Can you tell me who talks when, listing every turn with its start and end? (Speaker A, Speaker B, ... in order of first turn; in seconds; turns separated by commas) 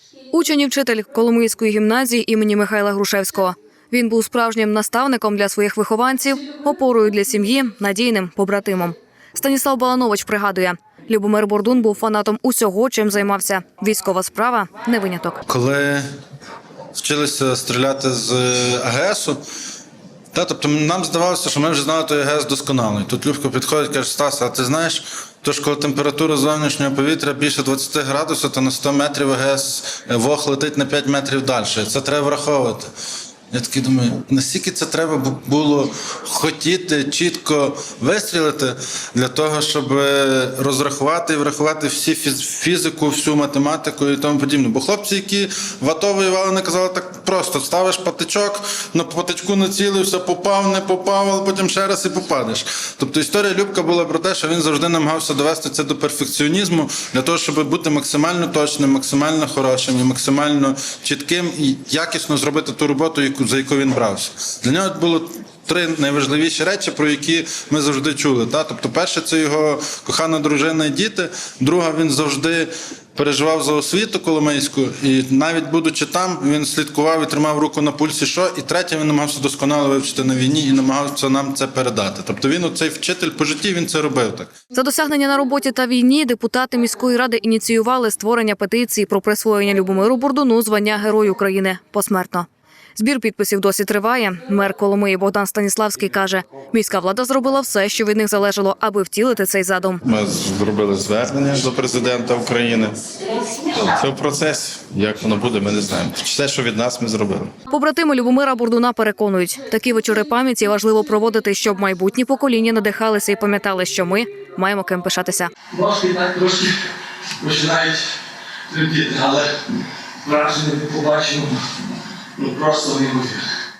Speaker A: 0.3-15.4, Speaker B: 15.5-16.0, Speaker B: 16.9-19.4, Speaker B: 20.3-32.9, Speaker B: 33.5-84.5, Speaker A: 84.7-100.0, Speaker C: 100.0-103.0, Speaker C: 103.6-107.5, Speaker A: 107.7-115.5, Speaker D: 115.7-116.7, Speaker D: 117.4-118.0, Speaker D: 118.7-119.5, Speaker D: 120.2-121.6, Speaker D: 122.4-123.4